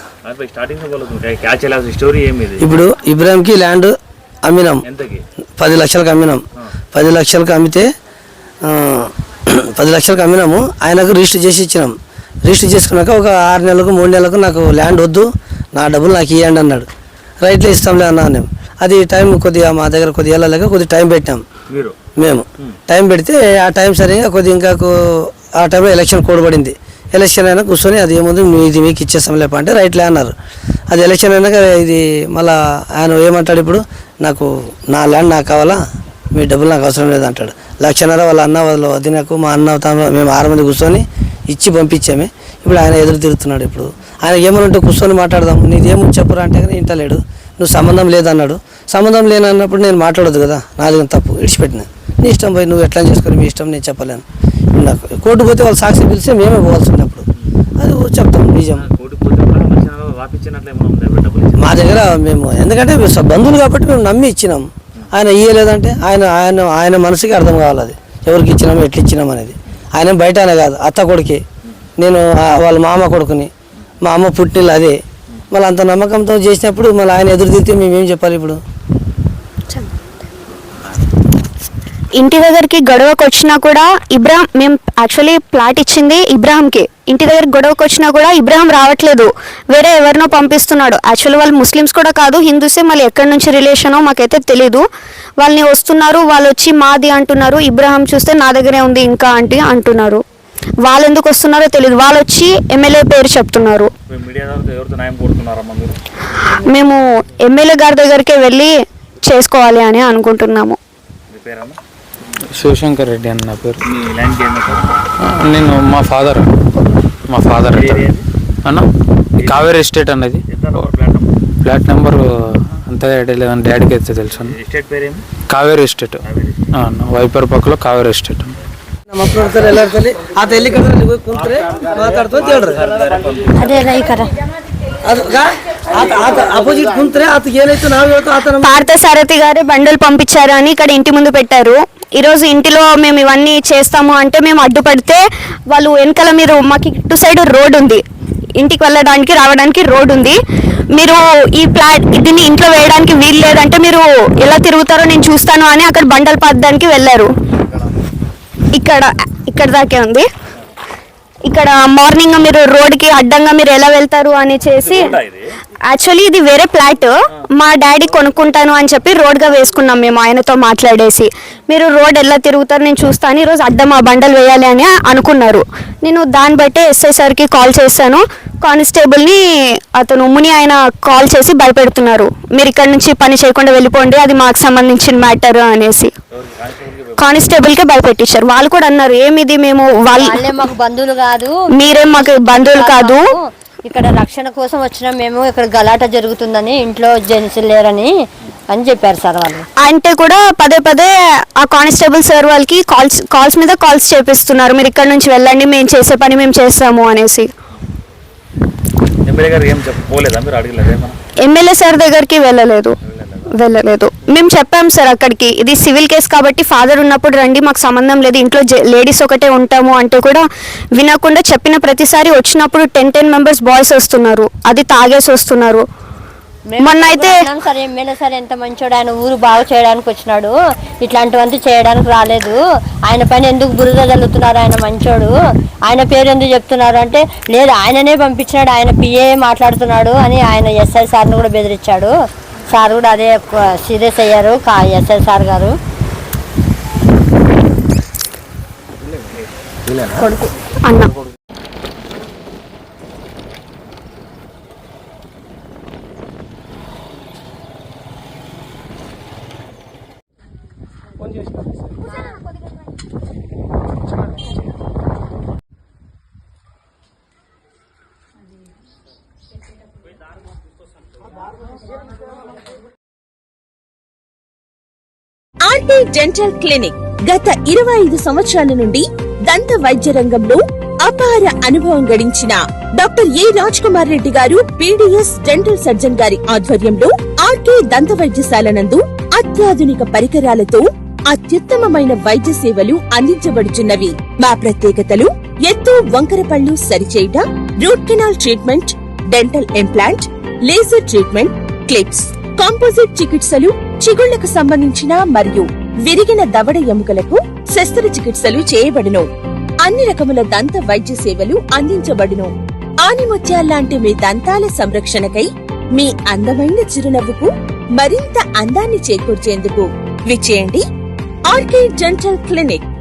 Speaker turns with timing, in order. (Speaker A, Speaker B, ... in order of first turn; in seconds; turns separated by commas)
Speaker A: 0.2-2.7, Speaker B: 2.6-3.9, Speaker B: 4.4-4.8, Speaker A: 4.8-5.2, Speaker B: 5.6-6.4, Speaker B: 6.9-7.9, Speaker B: 8.6-16.9, Speaker B: 17.4-21.4, Speaker A: 21.7-21.9, Speaker B: 22.2-30.3, Speaker B: 30.9-35.8, Speaker B: 36.3-54.2, Speaker B: 54.7-57.2, Speaker B: 57.8-58.8, Speaker A: 58.7-61.8, Speaker B: 61.6-71.4, Speaker B: 72.0-73.5, Speaker B: 74.0-75.0, Speaker B: 75.5-78.6, Speaker C: 82.2-94.8, Speaker C: 95.4-100.2, Speaker C: 100.8-103.9, Speaker A: 104.1-106.0, Speaker C: 106.5-108.7, Speaker C: 109.3-110.8, Speaker A: 111.3-111.8, Speaker D: 112.5-113.8, Speaker A: 113.8-115.0, Speaker D: 115.2-116.5, Speaker D: 117.3-118.1, Speaker A: 117.7-118.2, Speaker A: 119.4-119.7, Speaker D: 119.4-120.4, Speaker A: 120.5-121.3, Speaker D: 121.6-122.2, Speaker D: 122.9-124.5, Speaker A: 124.4-125.2, Speaker D: 125.5-126.2, Speaker A: 126.2-126.7, Speaker D: 126.7-128.6, Speaker B: 129.1-132.9, Speaker A: 132.6-133.7, Speaker E: 133.5-134.3, Speaker B: 135.0-138.7, Speaker C: 138.6-148.0, Speaker C: 148.6-150.4, Speaker C: 150.9-157.3, Speaker C: 158.7-160.3, Speaker C: 161.5-165.1, Speaker A: 164.8-165.5, Speaker C: 165.9-179.4, Speaker C: 179.9-186.1, Speaker A: 186.3-187.5, Speaker C: 187.2-190.5, Speaker E: 190.1-199.7, Speaker C: 191.7-193.3, Speaker C: 199.8-207.5, Speaker A: 209.2-211.2, Speaker C: 211.4-212.9, Speaker A: 213.0-213.5, Speaker C: 213.5-220.4, Speaker C: 221.0-225.8, Speaker E: 226.7-235.3, Speaker C: 226.8-227.5, Speaker E: 235.9-242.1, Speaker E: 242.7-245.8, Speaker C: 250.2-251.1, Speaker F: 275.6-309.3, Speaker F: 309.8-320.8, Speaker F: 321.5-322.9